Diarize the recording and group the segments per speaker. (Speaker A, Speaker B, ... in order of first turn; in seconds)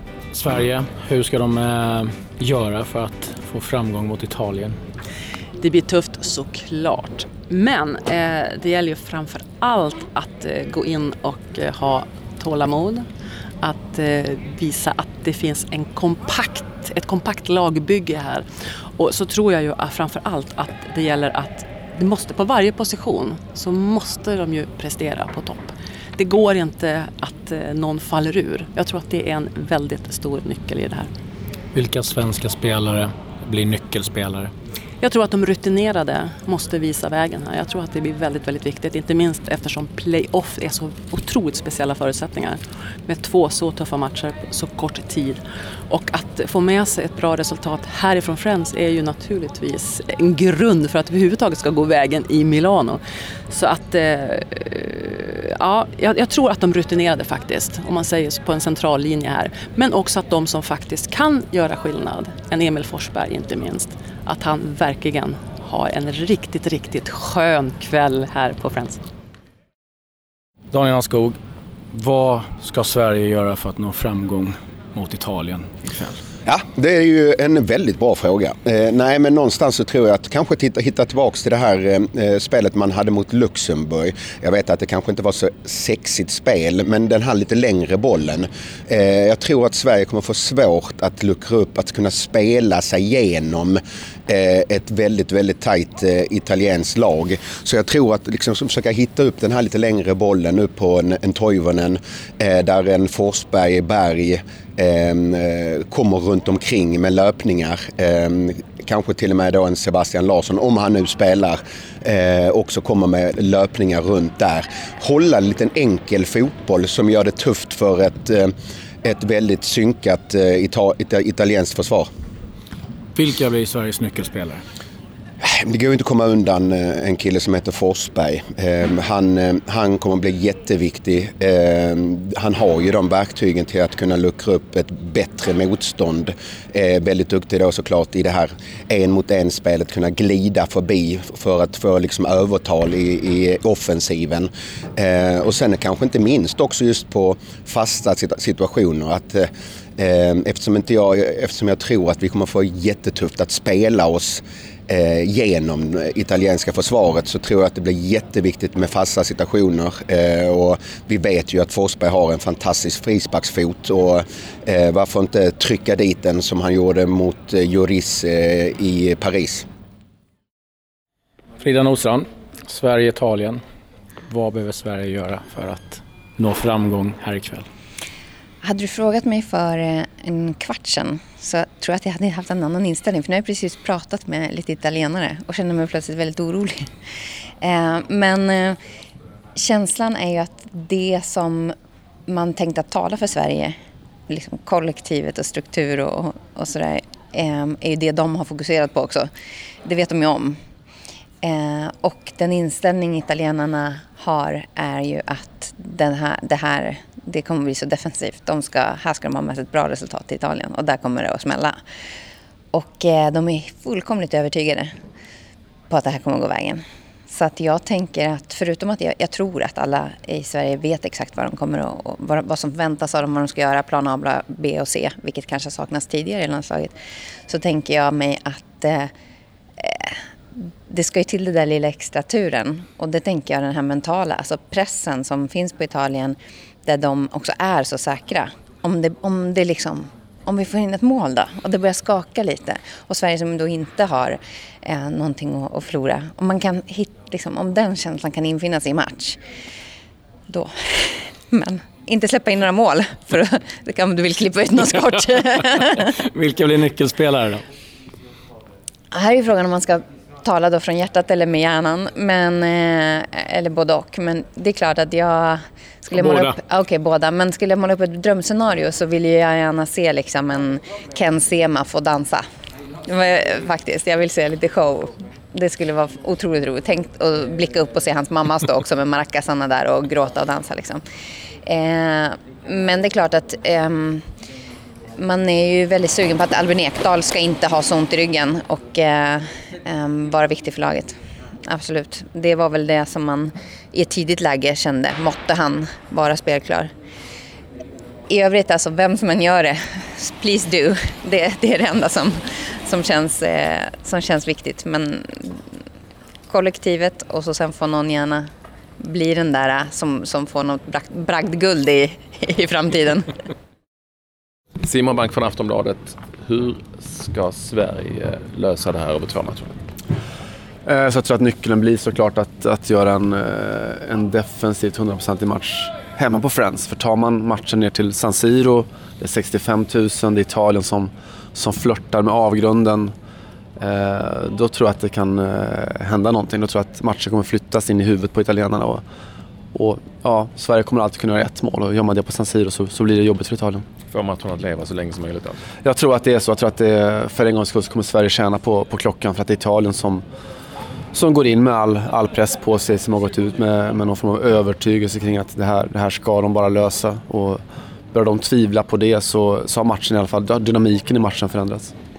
Speaker A: 0.3-4.8, 31.7-34.5, 70.7-71.4, 71.9-76.2, 123.1-124.6, 171.6-173.6, 174.3-177.7, 256.2-257.6, 266.1-266.6
Speaker B: 5.6-13.1, 13.6-18.4, 19.0-31.1, 35.0-69.0
Speaker C: 76.5-118.5, 119.0-122.1, 125.4-169.7
Speaker D: 178.6-186.9, 187.6-188.8, 189.6-191.7, 192.3-193.7, 194.3-199.3, 199.8-200.6, 201.4-211.8, 212.7-214.9, 215.9-226.9, 227.5-229.1, 229.8-249.4, 250.5-256.1, 259.1-272.4, 273.0-281.0, 281.6-284.2, 285.2-291.1, 291.7-296.9, 298.3-305.6, 306.5-308.5, 309.0-313.3
Speaker E: 314.8-319.8, 344.1-345.6
Speaker F: 320.9-333.1, 333.8-339.0, 339.7-343.8, 345.8-350.2, 351.1-357.6, 358.1-361.9